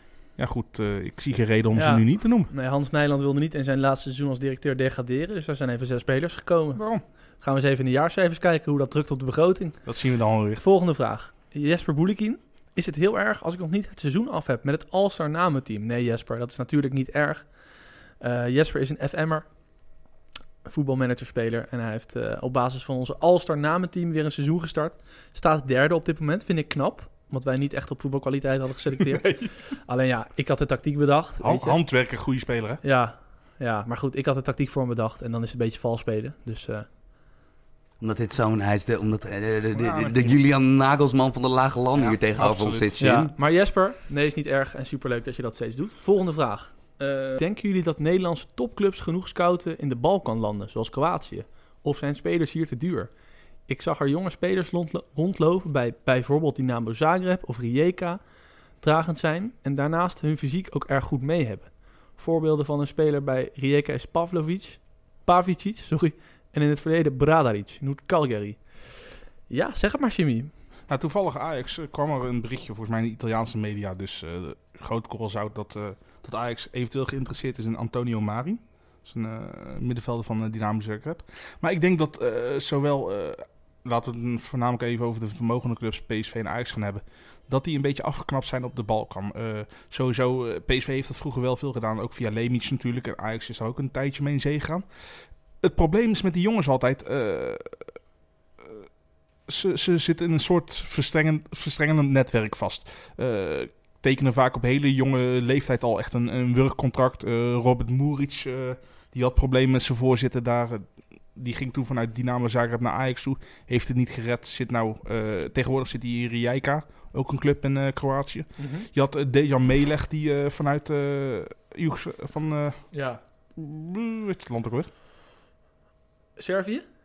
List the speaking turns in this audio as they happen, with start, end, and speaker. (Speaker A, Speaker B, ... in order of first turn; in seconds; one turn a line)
Speaker A: 0.4-2.5
Speaker B: 1.7-6.8
Speaker A: 6.8-7.0
Speaker B: 7.4-9.8
Speaker A: 9.9-10.6
Speaker B: 10.6-17.5
Speaker B: 18.2-19.5
Speaker B: 20.7-31.8
Speaker A: 29.2-29.5
Speaker A: 31.4-32.8
Speaker B: 32.8-36.9
Speaker C: 38.0-43.3
Speaker A: 39.8-40.4
Speaker A: 42.0-42.9
Speaker B: 43.0-53.1
Speaker B: 53.7-58.2
Speaker B: 58.8-68.6
Speaker B: 69.5-70.5
Speaker A: 70.9-94.8
Speaker A: 95.6-97.9
Speaker A: 99.5-122.8
Speaker B: 118.6-118.9
Speaker B: 122.9-123.2
Speaker A: 123.6-124.9
Speaker B: 126.4-126.8